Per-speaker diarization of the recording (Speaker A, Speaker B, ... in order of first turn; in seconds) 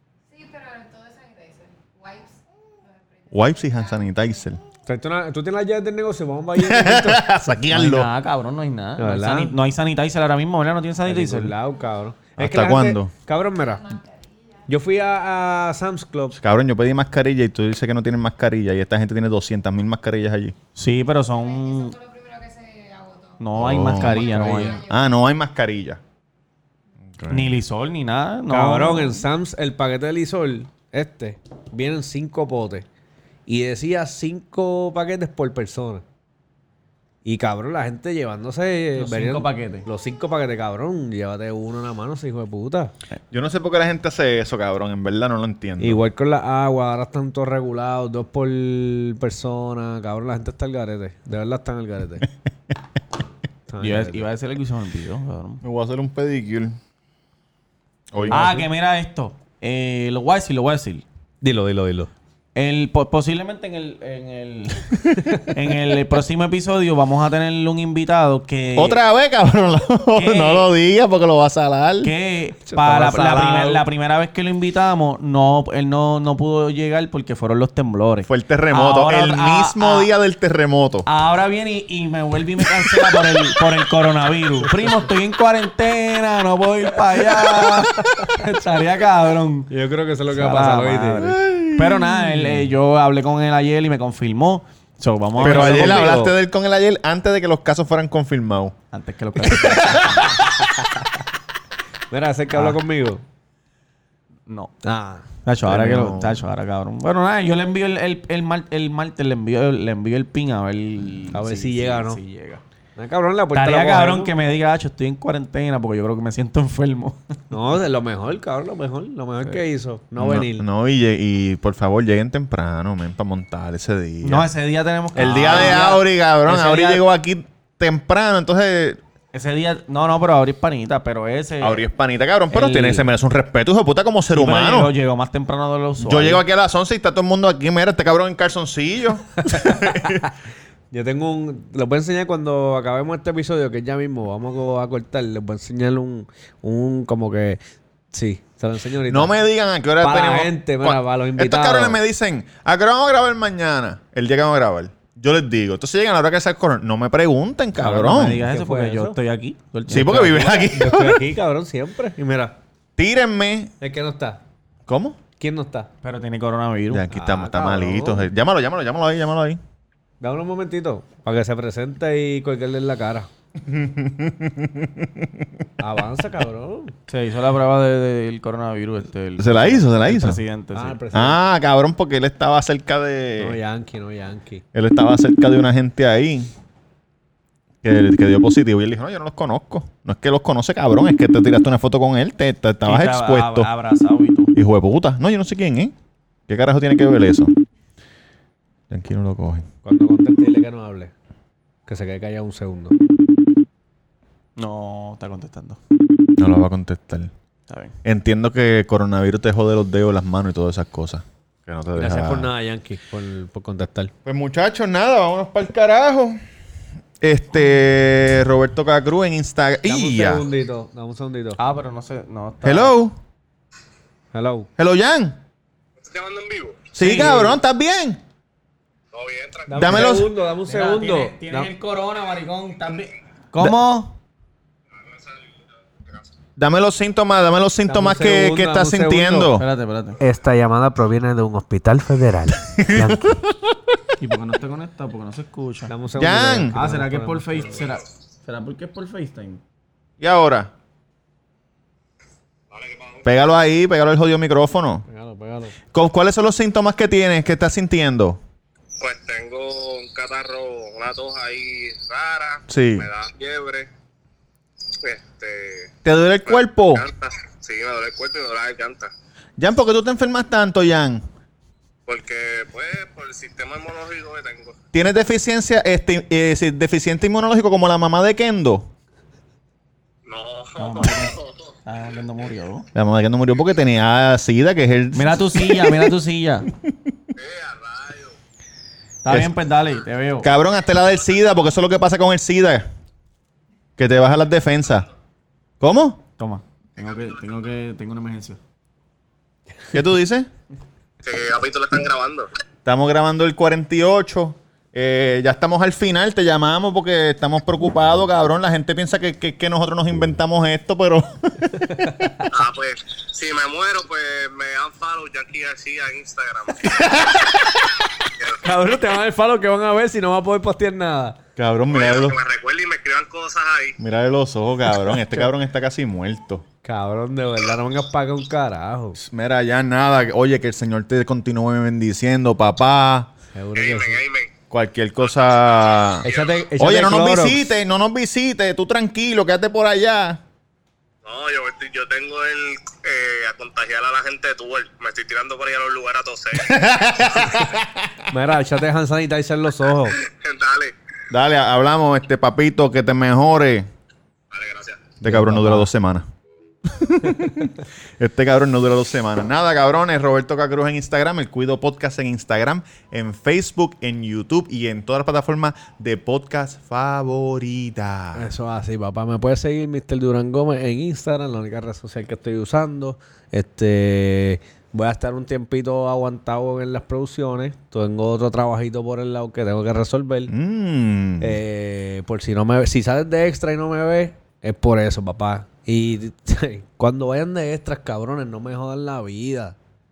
Speaker A: 0.3-4.5, 13.4-14.7, 21.3-25.1
Speaker B: 3.3-4.6, 6.6-8.1, 12.4-13.1, 16.3-20.5, 23.6-24.1, 24.9-26.0, 27.1-27.5, 43.3-46.0, 55.6-56.8, 58.1-58.4, 68.8-72.1, 78.2-81.1, 83.1-83.6, 91.2-92.7, 95.4-98.7, 105.6-106.4, 120.2-124.5, 125.1-129.0, 131.6-134.9, 136.0-140.3, 149.1-158.4, 159.9-161.2, 163.0-163.7, 164.9-165.2, 166.9-169.6, 173.6-175.5, 179.4-180.4, 181.1-183.6, 184.7-186.5, 187.8-193.7, 194.5-195.9, 196.5-197.5, 198.9-199.7, 206.4-207.3, 208.0-212.5, 214.2-216.4, 217.2-220.4, 222.6-223.2, 224.8-225.4, 226.9-228.2, 229.8-230.3, 236.6-239.6, 242.8-243.7, 246.2-246.7, 250.2-250.7, 253.2-255.1, 255.9-258.4, 262.7-263.1, 266.0-267.1, 269.6-271.2, 274.9-278.9, 282.9-286.1, 290.4-292.9, 294.0-295.1, 295.8-296.2, 299.9-300.5, 302.9-312.3, 316.9-317.4, 321.6-322.4, 324.0-326.6, 329.1-333.3, 334.7-336.3, 336.8-340.4, 346.6-348.1, 351.3-353.9, 355.2-356.3, 356.9-368.5, 380.5-381.6
Speaker C: 4.9-7.3, 9.0-9.5, 11.0-14.0, 14.7-16.4, 24.0-24.8, 28.5-32.9, 33.5-36.0, 37.2-42.9, 45.8-52.2, 53.7-54.3, 58.2-58.7, 61.4-62.1, 72.7-73.8, 89.7-91.2, 95.4-96.3, 100.4-101.0, 102.1-103.2, 104.8-105.3, 111.3-112.2, 113.0-114.3, 117.5-120.7, 125.5-125.9, 139.4-140.3, 140.9-149.3, 150.0-152.0, 158.0-159.2, 160.7-162.6, 163.8-164.4, 165.4-165.9, 167.1-168.3, 170.2-173.3, 175.8-176.9, 180.7-181.4, 183.4-184.6, 199.8-201.1, 201.9-202.9, 211.9-214.1, 219.8-221.6, 224.3-224.7, 229.7-231.7, 237.9-239.5, 240.2-243.4, 245.9-247.8, 255.1-255.7, 318.6-321.4, 326.8-329.2, 333.5-334.2, 336.3-337.7, 348.3-350.2, 355.2-355.9, 368.3-380.5, 381.4-389.8
Speaker D: 7.7-11.5, 20.8-21.9, 23.4-24.8, 27.3-29.2, 39.0-39.9, 53.8-55.6, 58.3-61.0, 62.5-69.0, 70.2-70.7, 72.0-80.1, 81.0-89.7, 90.3-96.2, 98.9-100.5, 104.5-104.7, 105.4-112.6, 113.5-117.3, 124.2-127.0, 129.3-131.8, 132.5-133.1, 134.3-136.4, 157.8-160.7, 166.0-167.1, 177.1-181.0, 192.8-194.5, 204.6-205.8, 207.7-207.9, 221.6-222.9, 227.0-227.6, 230.6-234.2, 239.5-240.2, 244.2-245.9, 246.7-249.6, 280.8-282.9, 285.1-286.7, 289.2-290.5, 296.4-298.6
Speaker E: 226.0-226.9, 229.1-229.9, 235.0-235.3, 252.7-253.2, 259.0-263.9, 265.0-265.9, 266.4-269.1, 272.1-274.8, 280.2-281.7, 287.4-288.4, 301.2-302.5, 312.5-317.4, 321.9-323.9, 333.7-334.5, 336.2-336.7, 341.2-347.7, 350.1-350.9, 354.5-355.1